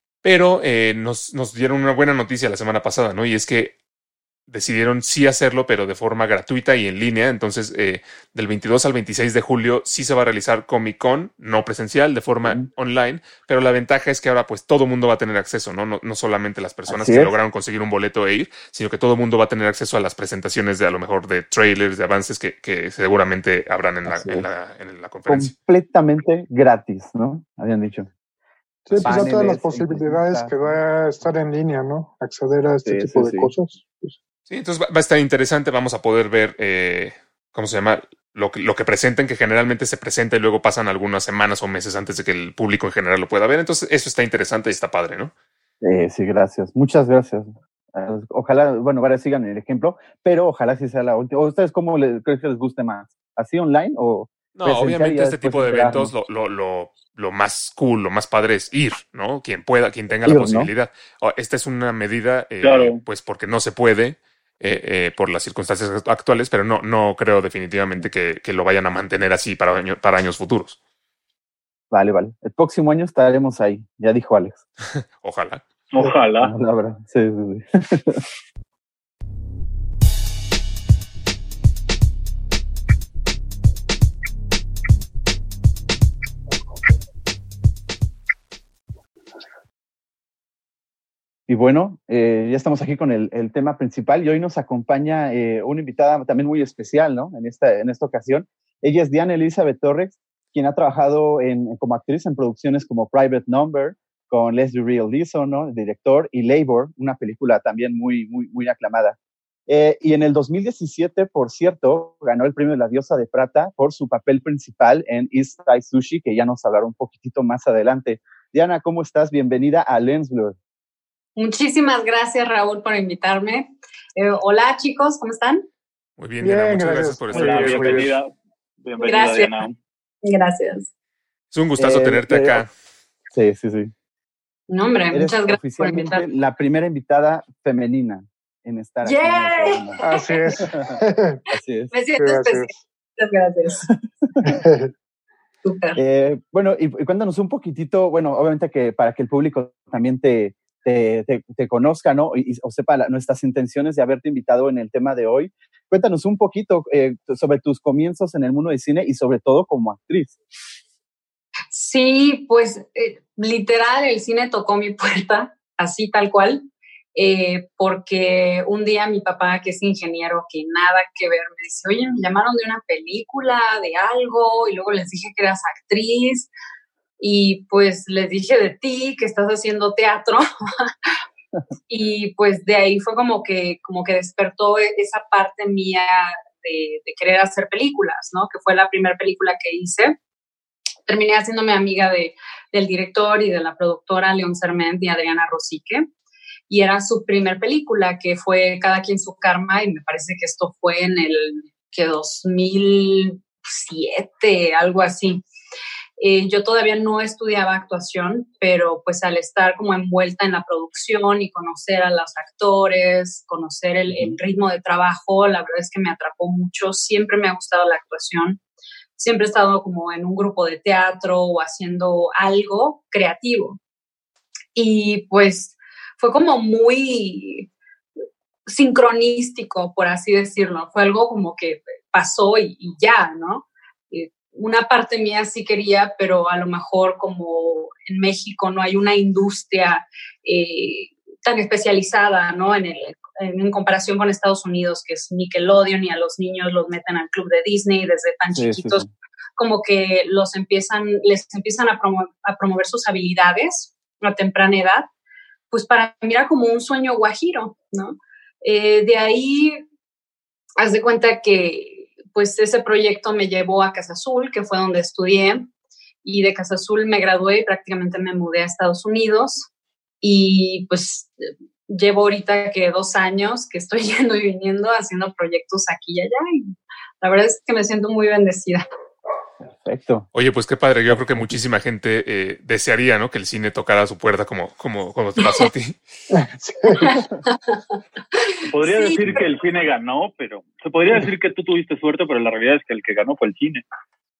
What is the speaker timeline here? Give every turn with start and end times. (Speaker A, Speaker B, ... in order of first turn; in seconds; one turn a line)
Speaker A: 0.2-3.8
Speaker A: 4.5-25.5
Speaker B: 16.9-17.3
Speaker B: 24.1-24.4
Speaker B: 25.3-28.1
Speaker C: 28.9-34.1
Speaker A: 28.9-29.3
Speaker B: 29.0-30.8
Speaker B: 32.8-33.5
Speaker A: 34.5-45.3
Speaker B: 45.8-56.1
Speaker A: 54.5-70.8
Speaker B: 60.2-60.7
Speaker D: 62.6-63.0
Speaker B: 71.9-74.6
Speaker A: 75.2-75.6
Speaker D: 75.9-76.5
Speaker B: 76.4-78.2
Speaker B: 91.5-109.2
Speaker B: 109.7-120.6
Speaker E: 121.3-125.7
Speaker A: 126.2-128.1
Speaker C: 126.4-128.2
Speaker D: 127.3-129.8
Speaker E: 129.0-129.5
Speaker E: 130.2-130.9
Speaker A: 131.5-132.7
Speaker B: 131.8-132.6
Speaker B: 133.3-133.9
Speaker E: 134.7-136.2
Speaker B: 135.1-141.9
Speaker E: 139.0-140.6
Speaker C: 140.0-141.4
Speaker E: 141.9-143.9
Speaker C: 142.2-142.8
Speaker B: 143.9-144.5
Speaker C: 144.4-144.9
Speaker E: 145.6-146.0
Speaker B: 145.9-160.4
Speaker E: 161.7-176.5
Speaker E: 177.2-180.9
Speaker E: 181.9-190.2
Speaker E: 191.1-196.1
Speaker E: 196.7-205.4
Speaker E: 206.2-218.6
Speaker E: 219.2-223.8
Speaker E: 224.7-227.7
Speaker E: 228.7-249.0
Speaker B: 248.5-249.1
Speaker E: 249.6-255.1
Speaker E: 255.7-259.8
Speaker E: 260.8-265.7
Speaker E: 266.2-269.7
Speaker E: 270.2-278.8
Speaker B: 279.6-280.3
Speaker A: 280.3-286.0
Speaker B: 281.1-281.5
Speaker C: 286.3-287.2
Speaker E: 286.9-287.8
Speaker E: 288.3-289.2
Speaker D: 288.7-293.8